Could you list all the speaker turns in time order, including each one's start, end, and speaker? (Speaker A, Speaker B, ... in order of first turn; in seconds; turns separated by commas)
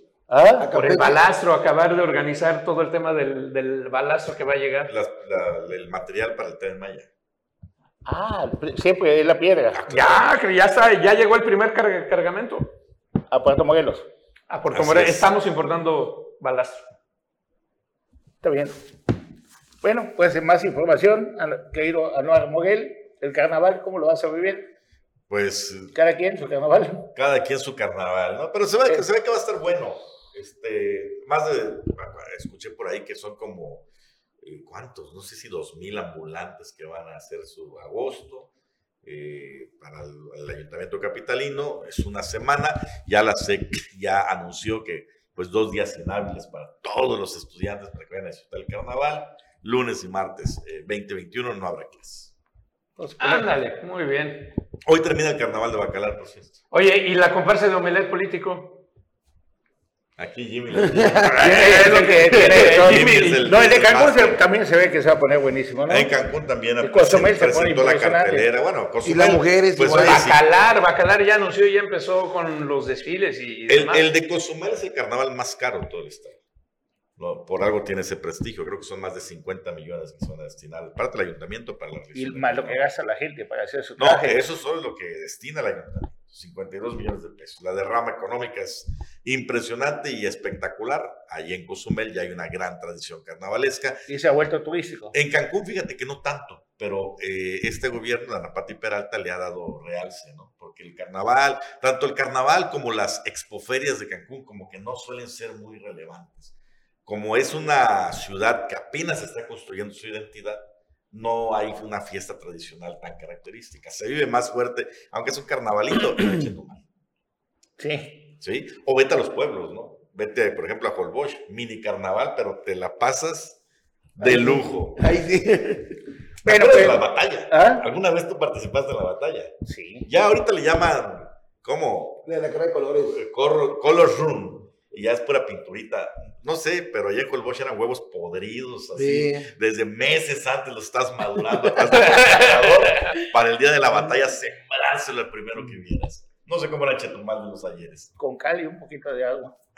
Speaker A: 0.3-0.7, Speaker B: 0.6-1.2, Speaker C: 0.7-4.9, Speaker D: 4.8-7.1, Speaker A: 8.0-9.9, Speaker D: 9.7-10.3, Speaker C: 9.9-12.7, Speaker A: 13.3-14.1, Speaker C: 14.5-16.8, Speaker D: 14.7-15.3, Speaker A: 18.4-18.7, Speaker A: 19.8-24.7, Speaker D: 25.3-25.9, Speaker A: 25.9-27.1, Speaker D: 27.1-33.8, Speaker D: 34.4-38.5, Speaker D: 39.0-52.3, Speaker A: 53.0-53.5, Speaker C: 53.2-54.5, Speaker D: 54.9-56.6, Speaker C: 56.7-58.8, Speaker D: 60.2-64.4, Speaker C: 61.3-63.5, Speaker A: 61.3-66.1, Speaker D: 65.9-70.7, Speaker A: 66.8-68.5, Speaker B: 69.0-70.3, Speaker C: 69.9-74.0, Speaker D: 73.7-76.4, Speaker D: 77.2-82.8, Speaker A: 82.1-84.4, Speaker D: 84.0-94.0, Speaker A: 94.1-95.1, Speaker D: 95.1-106.5, Speaker D: 107.0-116.8, Speaker A: 117.8-118.2, Speaker D: 118.4-123.6, Speaker D: 124.2-125.0, Speaker B: 124.2-126.0, Speaker D: 126.4-129.5, Speaker A: 126.4-127.8, Speaker A: 129.7-130.1, Speaker D: 130.1-132.3, Speaker B: 132.2-133.2, Speaker D: 133.1-148.1, Speaker B: 138.9-139.5, Speaker C: 142.0-143.0, Speaker A: 148.2-149.5